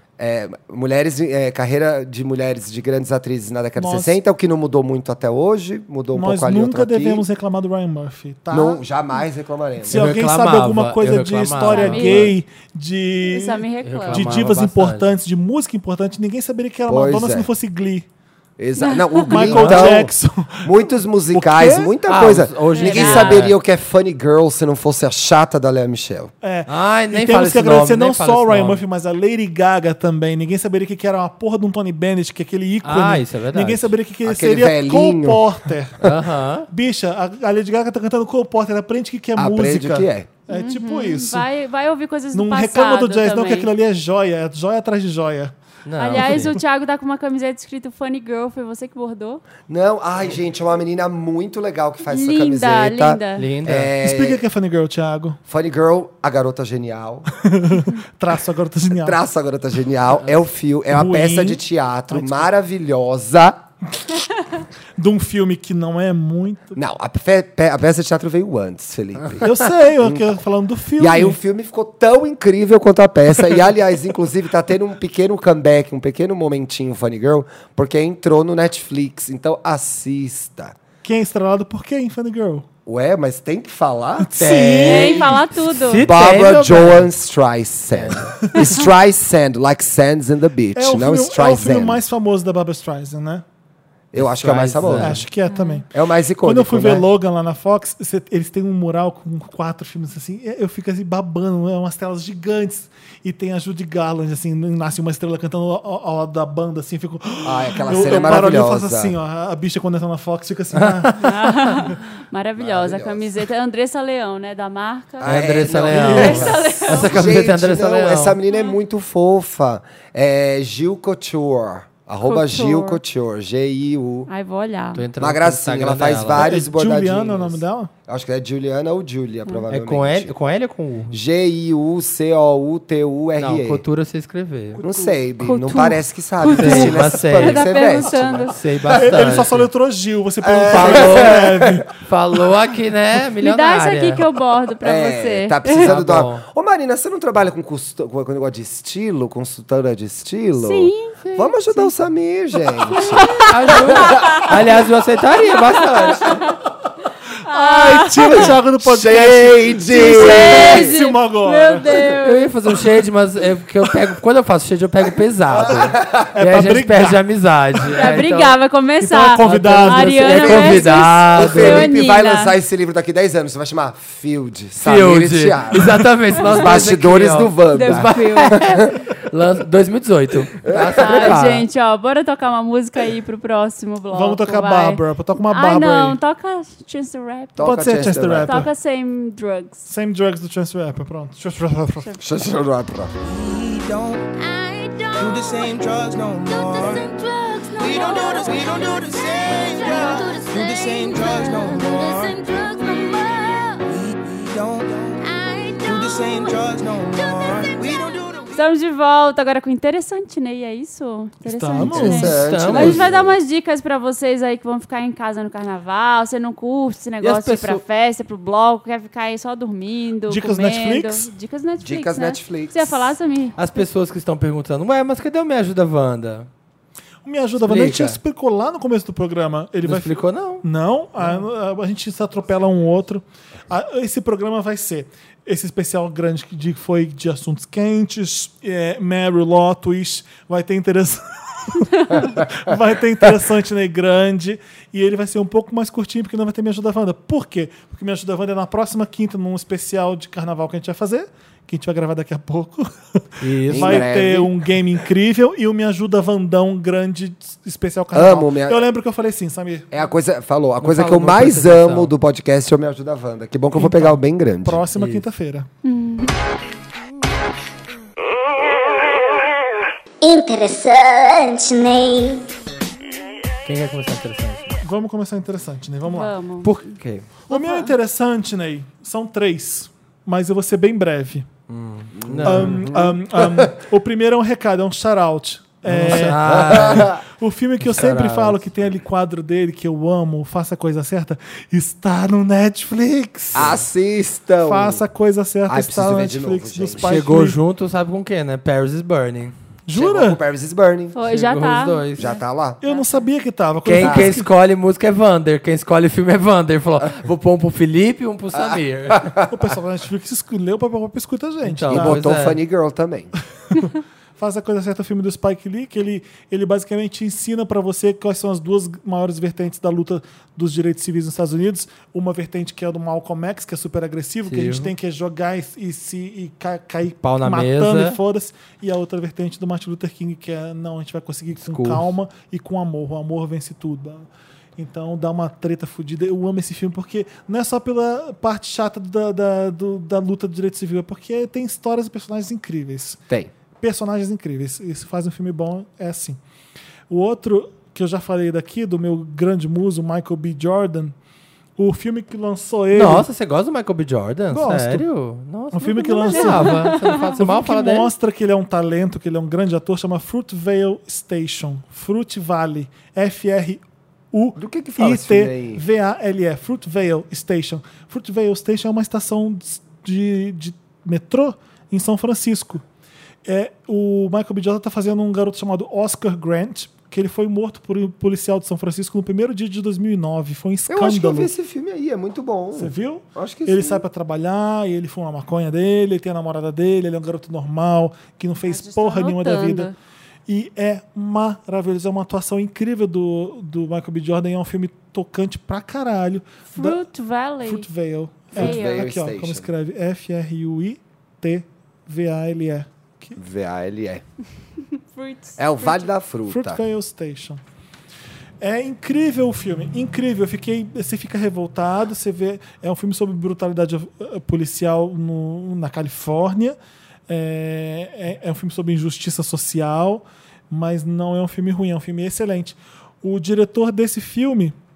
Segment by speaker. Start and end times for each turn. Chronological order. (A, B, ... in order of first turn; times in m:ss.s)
0:00.2-0:07.2 A
0:03.8-0:04.2 B
0:06.1-0:08.8 B
0:08.5-0:10.1 A
0:09.8-0:18.1 B
0:09.9-0:12.3 C
0:11.7-0:12.3 D
0:13.2-0:14.5 D
0:13.8-0:15.1 C
0:16.9-0:17.5 A
0:18.6-0:26.3 A
0:18.8-0:19.3 D
0:19.3-0:20.7 B
0:19.4-0:19.9 C
0:21.3-0:21.9 B
0:22.1-0:23.6 C
0:22.7-0:23.5 D
0:26.4-0:36.1 B
0:26.7-0:28.8 C
0:32.8-0:33.9 C
0:34.2-0:35.4 A
0:36.0-0:36.7 C
0:36.7-0:41.5 B
0:39.4-0:40.3 A
0:40.5-0:43.7 D
0:42.3-0:45.5 B
0:45.8-0:46.6 C
0:46.0-0:49.4 D
0:49.7-0:54.4 A
0:52.1-0:53.5 D
0:53.4-0:53.9 C
0:54.0-0:55.4 B
0:55.5-0:57.3 A
0:57.4-0:59.2 B
0:58.9-1:03.6 A
1:00.9-1:02.5 B
1:05.0-1:06.8 B
1:06.7-1:10.4 A
1:09.4-1:11.4 B
1:11.0-1:20.8 A
1:21.0-1:22.6 B
1:22.8-1:24.3 A
1:24.2-1:25.5 B
1:24.4-1:27.1 C
1:24.8-1:26.1 D
1:26.0-1:32.0 A
1:27.9-1:28.3 C
1:30.7-1:33.4 B
1:34.1-1:35.2 A
1:34.2-1:35.2 C
1:34.9-1:35.9 B
1:35.4-1:35.8 D
1:35.9-1:37.1 A
1:36.4-1:52.0 B
1:47.4-1:49.2 A
1:50.7-1:51.0 C
1:51.2-1:55.3 D
1:52.6-1:53.4 A
1:55.2-2:04.3 A
1:55.2-1:58.4 C
1:55.9-1:56.6 B
1:56.1-1:57.1 D
1:58.5-1:58.8 D
2:02.2-2:03.0 D
2:04.3-2:05.0 D
2:04.9-2:06.5 C
2:05.2-2:10.3 A
2:06.4-2:07.9 B
2:09.7-2:11.2 C
2:11.1-2:13.8 A
2:13.4-2:14.8 C
2:14.8-2:18.5 A
2:14.8-2:18.6 D
2:14.8-2:15.1 B
2:16.5-2:19.7 C
2:18.9-2:21.9 B
2:20.4-2:21.8 A
2:20.7-2:21.4 C
2:22.0-2:24.2 C
2:23.4-2:25.9 D
2:24.8-2:34.8 A
2:25.7-2:26.4 C
2:30.6-2:31.2 D
2:31.2-2:31.5 C
2:32.9-2:34.5 D
2:33.3-2:36.4 C
2:35.8-2:36.6 D
2:37.4-2:38.5 D
2:37.5-2:41.9 B
2:38.8-2:41.0 A
2:39.9-2:42.5 D
2:42.2-2:48.6 C
2:45.5-2:46.4 A
2:46.3-2:47.2 B
2:47.9-2:52.5 D
2:49.0-2:50.5 B
2:49.4-2:51.9 C
2:50.3-2:59.0 A
2:54.8-3:01.7 C
2:56.4-2:56.7 D
2:57.7-2:58.6 D
3:00.6-3:01.4 A
3:00.7-3:09.9 D
3:04.1-3:06.2 B
3:07.6-3:08.7 A
3:07.6-3:08.7 B
3:09.9-3:12.2 B
3:12.2-3:13.1 A
3:13.2-3:14.2 E
3:13.4-3:13.7 F
3:14.3-3:15.8 F
3:15.2-3:17.0 E
3:16.4-3:23.9 F
3:17.8-3:22.4 E
3:23.8-3:25.2 E
3:25.1-3:28.3 F
3:25.8-3:28.5 E
3:28.5-3:43.8 D
3:31.4-3:32.4 B
3:31.8-3:33.4 A
3:32.2-3:33.0 C
3:37.2-3:37.8 C
3:40.3-3:41.3 B
3:41.8-3:43.1 A
3:43.6-3:46.5 C
3:47.2-4:19.9 B
3:47.6-3:48.2 C
3:49.8-3:50.6 C
4:13.4-4:14.1 C
4:13.7-4:14.5 A
4:18.1-4:18.8 A
4:19.9-4:24.8 A
4:20.8-4:22.1 C
4:23.7-4:25.7 B
4:24.9-4:25.3 C
4:25.8-4:26.3 D
4:30.2-4:32.4 F
4:33.6-4:34.8 C
4:34.8-4:36.3 B
4:36.0-4:37.0 D
4:36.6-4:37.3 C
4:37.5-4:41.5 B
4:37.5-4:37.9 D
4:41.7-4:42.9 C
4:42.1-4:43.8 A
4:42.4-4:53.8 B
4:45.8-4:47.1 C
4:46.0-4:47.2 A
4:47.8-4:48.7 C
4:53.5-4:55.0 A
4:53.5-4:53.8 C
4:54.6-4:57.6 B
4:55.7-4:57.3 A
4:57.0-4:59.5 C
4:59.8-5:00.4 B
4:59.9-5:01.2 A
5:01.1-5:03.2 D
5:01.3-5:02.3 C
5:02.2-5:02.8 A
5:02.8-5:04.4 B
5:03.8-5:09.3 C
5:04.0-5:04.3 A
5:08.5-5:09.6 A
5:09.5-5:12.2 B
5:11.6-5:12.6 C
5:11.9-5:13.3 A
5:13.7-5:43.2 B
5:24.4-5:24.9 C
5:27.2-5:28.2 C
5:31.5-5:32.1 C
5:43.8-5:46.4 B
5:47.1-5:51.1 B
5:51.8-5:53.3 B
5:52.9-5:58.1 C
5:54.5-5:55.0 B
5:55.7-6:12.8 B
5:56.3-5:57.3 D
6:04.6-6:05.8 A
6:13.4-6:21.5 B
6:20.9-6:24.0 A
6:22.7-6:29.9 B
6:28.6-6:29.9 D
6:30.5-6:37.0 B
6:36.7-6:37.9 D
6:37.6-6:43.4 B
6:38.5-6:39.1 D
6:38.5-6:39.7 A
6:43.4-6:44.2 A
6:44.9-6:46.1 D
6:45.6-6:46.8 A
6:46.5-6:47.6 B
6:48.6-6:56.8 B
6:57.3-7:04.7 B